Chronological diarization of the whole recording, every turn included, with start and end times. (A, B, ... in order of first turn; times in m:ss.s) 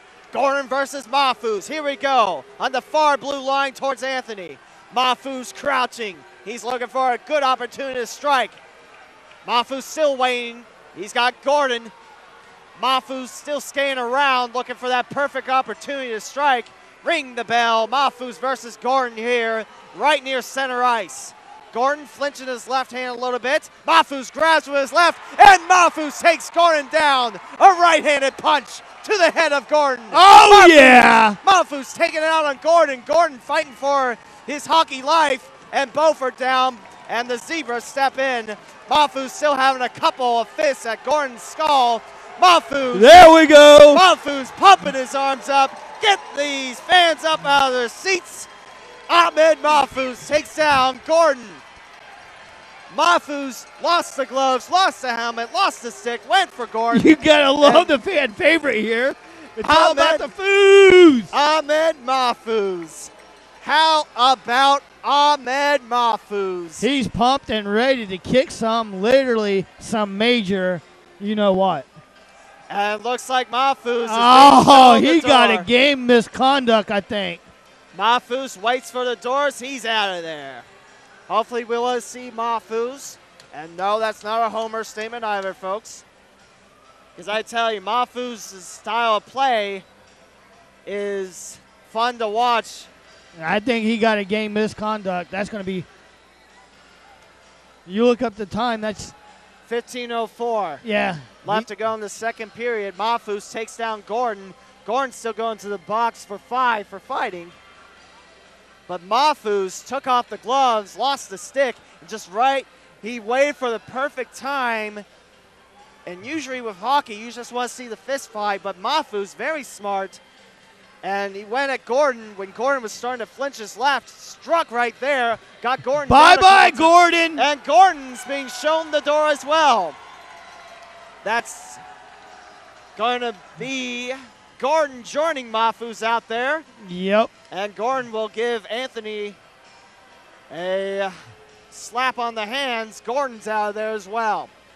0:00.3-0:08.6 A
0:09.4-0:11.9 A
0:12.8-0:43.2 A
0:30.1-0:31.4 B
0:42.9-0:44.0 B
0:43.9-0:48.5 A
0:49.1-0:51.6 A
0:52.9-0:58.0 A
0:56.9-1:01.3 B
0:59.6-1:00.3 A
1:01.3-1:06.9 A
1:06.8-1:11.9 B
1:12.7-1:15.7 A
1:14.0-1:17.4 B
1:17.9-1:20.6 A
1:21.3-1:26.0 A
1:27.2-1:29.8 A
1:30.8-1:32.9 A
1:33.4-1:35.9 B
1:37.8-1:39.1 B
1:39.6-1:40.8 A
1:40.8-1:41.6 B
1:41.4-1:47.5 A
1:48.9-1:55.0 A
1:56.0-2:00.2 A
2:01.0-2:10.0 A
2:06.1-2:07.4 B
2:11.2-2:11.8 A
2:13.0-2:16.6 A
2:16.8-2:17.3 B
2:17.5-2:19.4 A
2:20.5-2:21.1 A
2:21.7-2:24.5 A